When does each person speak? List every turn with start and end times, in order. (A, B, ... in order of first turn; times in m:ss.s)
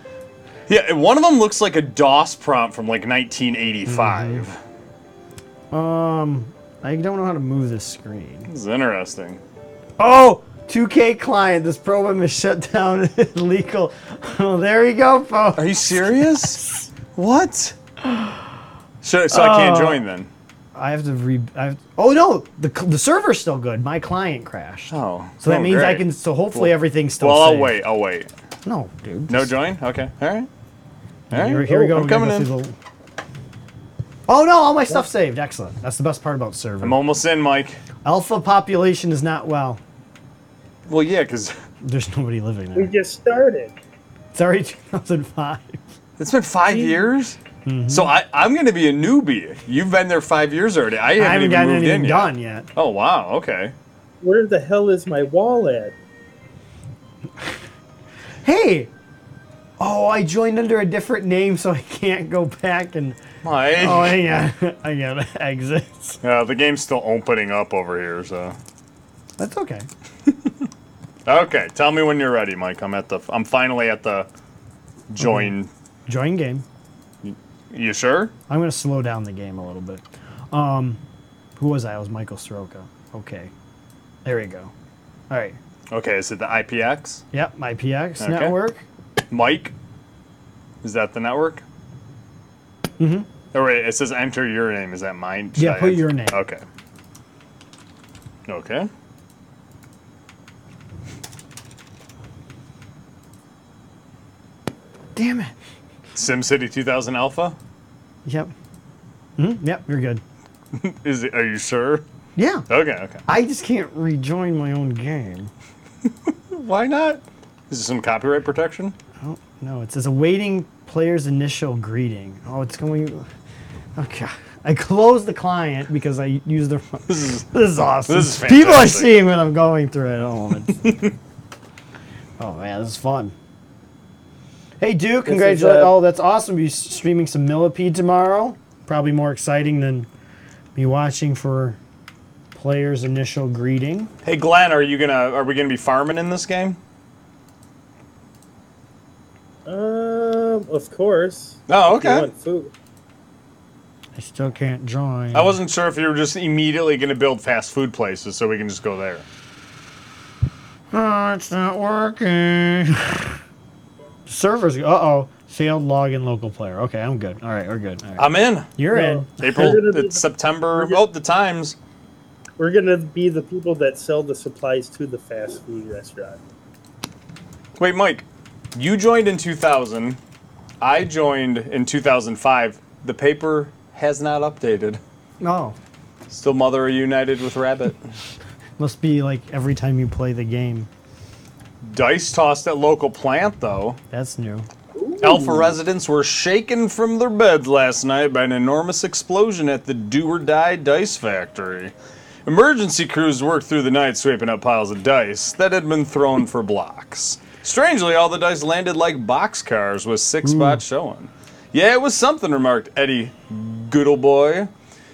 0:00.7-0:04.6 A
0:03.8-0:04.4 B
0:05.7-0:08.5 B
0:08.5-0:09.4 A
0:10.0-0:16.0 B
0:15.6-0:17.8 A
0:19.0-0:20.3 A
0:19.3-0:20.0 B
0:20.7-0:27.8 B
0:24.9-0:28.3 A
0:28.6-0:29.5 B
0:29.3-0:30.5 A
0:31.3-0:32.7 B
0:31.3-0:32.5 A
0:34.3-0:37.0 B
0:36.8-0:37.8 A
0:38.0-0:39.8 B
0:40.9-0:41.5 A
0:41.8-0:42.9 B
0:42.8-0:43.7 C
0:44.3-0:45.8 B
0:46.2-0:47.4 A
0:46.7-0:47.0 C
0:47.6-0:48.1 B
0:47.9-0:53.7 A
0:51.2-0:52.7 B
0:54.2-0:55.9 C
0:58.4-0:58.9 B
0:59.8-1:03.2 B
1:03.4-1:04.2 A
1:03.8-1:06.2 B
1:06.2-1:08.6 A
1:09.4-1:09.9 B
1:11.2-1:14.3 A
1:15.1-1:15.7 A
1:15.2-1:15.5 B
1:16.1-1:16.6 B
1:17.2-1:18.3 A
1:18.5-1:21.0 B
1:21.6-1:23.5 B
1:24.2-1:24.7 B
1:25.3-1:25.6 B
1:25.9-1:27.2 A
1:27.3-1:28.8 B
1:28.2-1:28.6 A
1:29.3-1:29.7 A
1:30.8-1:31.6 A
1:33.0-1:33.3 B
1:33.5-1:36.6 A
1:35.6-1:36.4 B
1:38.5-1:38.9 A
1:45.1-1:45.5 B
1:46.1-1:47.6 A
1:48.2-1:48.5 B
1:49.4-1:50.2 B
1:50.7-1:52.0 A
1:52.4-1:52.6 B
1:52.7-1:53.2 A
1:53.2-1:55.5 B
1:56.2-1:59.0 A
1:59.2-2:03.3 B
2:04.0-2:10.8 B
2:07.1-2:07.4 A
2:08.0-2:09.1 A
2:10.7-2:11.1 A
2:12.4-2:13.3 B
2:14.8-2:20.1 B
2:15.2-2:15.9 C
2:20.7-2:21.8 B
2:22.5-2:24.1 B
2:24.2-2:26.8 A
2:29.6-2:32.7 C
2:31.7-2:32.3 A
2:34.2-2:35.6 B
2:35.3-2:39.2 A
2:40.9-2:43.4 B
2:44.3-2:49.8 B
2:48.2-2:48.7 A
2:48.9-2:51.0 C
2:49.4-2:51.8 A
2:52.6-2:56.4 C
2:57.8-3:00.2 A
3:00.8-3:05.0 A
3:05.4-3:05.8 B
3:06.3-3:08.0 A
3:08.8-3:10.9 B
3:11.8-3:14.0 A
3:14.1-3:14.7 B
3:14.9-3:15.7 C
3:15.2-3:21.9 A
3:22.4-3:34.7 A
3:30.4-3:30.8 B